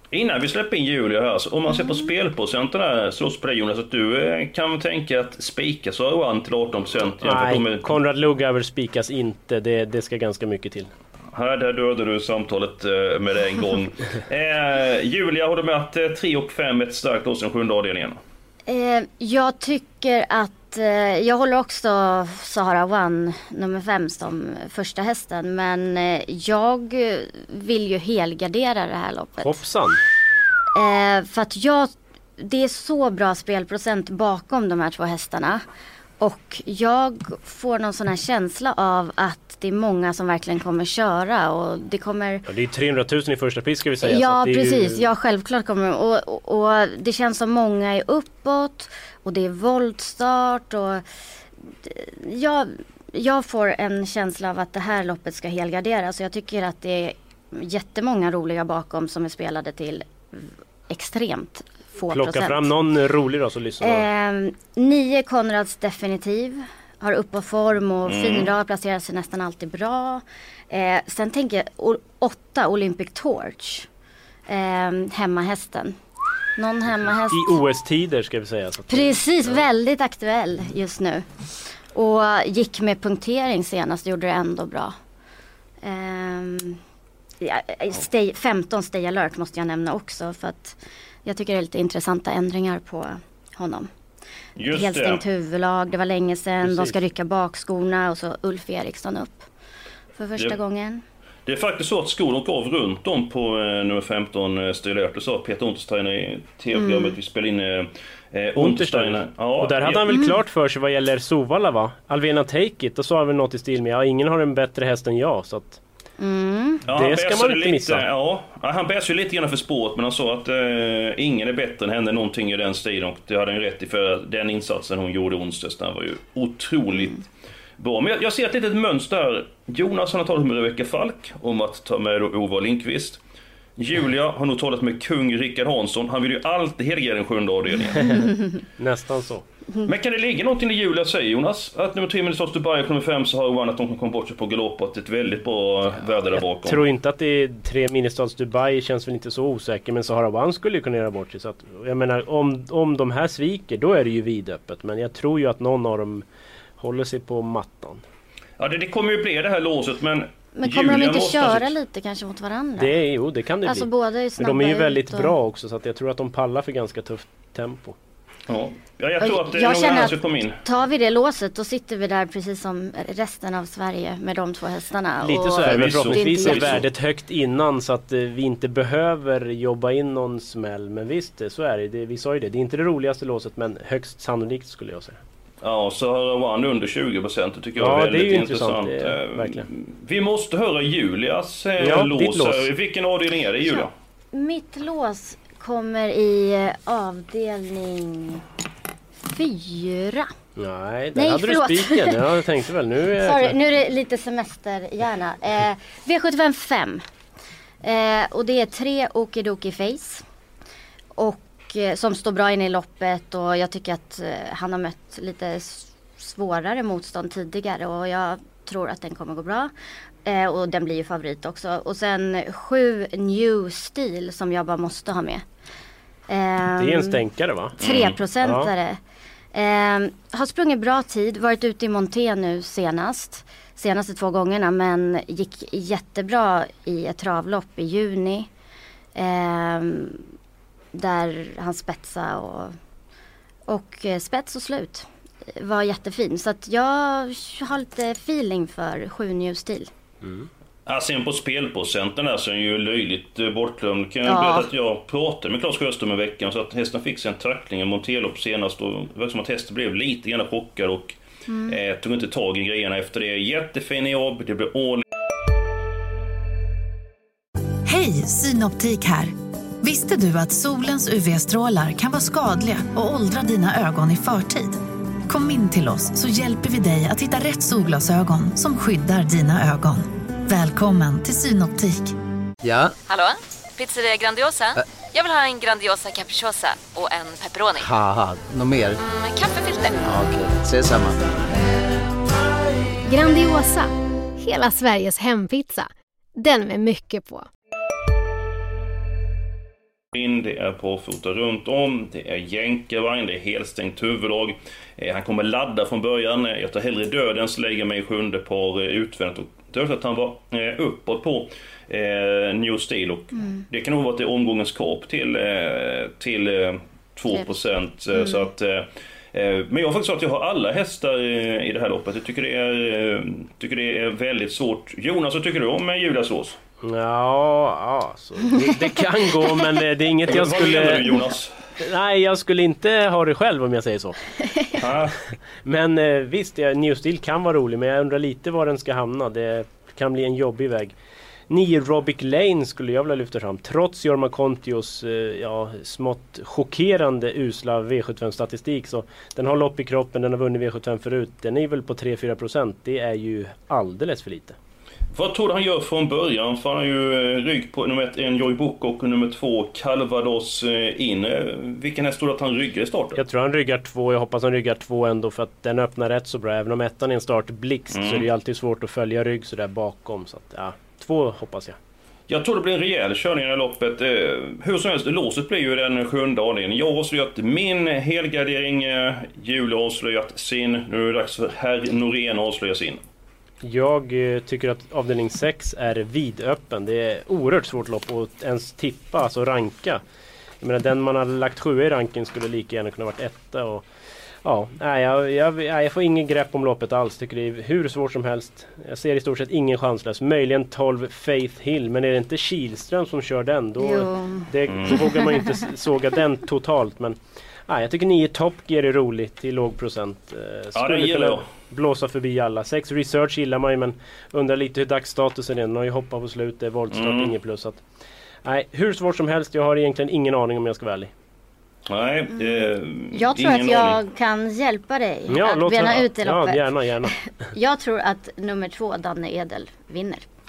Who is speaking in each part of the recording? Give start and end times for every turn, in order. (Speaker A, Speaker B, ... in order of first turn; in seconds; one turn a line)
Speaker A: 0.1-7.9
Speaker B: 7.2-10.9
Speaker A: 11.3-18.2
Speaker C: 18.7-29.6
Speaker B: 29.4-30.0
Speaker C: 30.8-35.6
Speaker C: 36.2-42.4
Speaker B: 42.5-45.1
Speaker C: 44.0-51.0
Speaker C: 51.7-62.7
Speaker B: 62.1-64.1
Speaker C: 63.8-73.9
Speaker A: 68.0-68.5
Speaker C: 74.5-76.0
Speaker C: 76.6-77.6
Speaker B: 77.3-79.7
Speaker C: 78.9-81.3
Speaker C: 81.9-85.0
Speaker C: 85.8-86.8
Speaker C: 87.4-93.9
Speaker A: 94.6-95.2
Speaker C: 94.7-99.5
Speaker B: 96.7-96.9
Speaker C: 100.2-101.0
Speaker A: 101.5-110.2
Speaker C: 106.8-107.2
Speaker B: 108.6-115.8
Speaker C: 116.2-116.8
Speaker A: 116.9-127.2
Speaker B: 116.9-118.0
Speaker A: 127.8-133.2
Speaker A: 133.8-138.3
Speaker B: 138.8-139.4
Speaker A: 139.8-146.8
Speaker B: 146.6-156.2
Speaker B: 156.8-158.0
Speaker A: 158.6-161.8
Speaker C: 160.6-163.0
Speaker B: 162.8-168.0
Speaker C: 163.7-165.3
Speaker A: 168.5-170.6
Speaker C: 169.2-176.8
Speaker B: 175.2-185.2
Speaker A: 175.5-176.8
Speaker A: 185.6-193.9
Speaker B: 187.8-189.7
Speaker B: 191.8-192.7
Speaker C: 193.7-198.4
Speaker C: 199.3-200.3
Speaker B: 200.6-203.6
Speaker C: 201.2-202.2
Speaker C: 203.2-207.0
Speaker C: 207.8-210.2
Speaker C: 211.2-219.7
Speaker C: 220.2-225.4
Speaker C: 226.3-227.2
Speaker B: 226.8-227.8
Speaker C: 227.8-229.0
Speaker A: 227.8-228.2
Speaker B: 228.4-228.7
Speaker C: 229.5-238.5
Speaker C: 239.2-240.2
Speaker C: 240.9-242.8
Speaker C: 243.7-249.9
Speaker B: 250.2-250.5
Speaker A: 250.9-265.0
Speaker C: 254.3-254.7
Speaker C: 261.5-261.8
Speaker D: 267.9-282.1
Speaker E: 282.6-282.9
Speaker F: 283.1-287.9
Speaker E: 287.8-289.0
Speaker F: 289.0-290.1
Speaker E: 290.0-291.2
Speaker G: 293.1-297.5
Speaker A: 300.1-326.6
Speaker C: 318.1-318.5
Speaker B: 326.8-331.0
Speaker A: 330.3-331.5
Speaker B: 331.8-334.2
Speaker A: 334.8-335.3
Speaker B: 335.6-340.9
Speaker B: 341.5-354.6
Speaker A: 355.1-363.2
Speaker B: 363.2-371.8
Speaker A: 367.9-368.3
Speaker A: 372.3-383.0
Speaker B: 383.6-390.0
Speaker B: 390.6-393.9
Speaker B: 394.4-417.8
Speaker C: 403.8-405.5
Speaker A: 404.7-405.1
Speaker A: 410.8-411.4
Speaker A: 416.9-417.3
Speaker B: 418.4-421.1
Speaker A: 421.9-424.0
Speaker C: 422.3-430.2
Speaker B: 425.3-427.1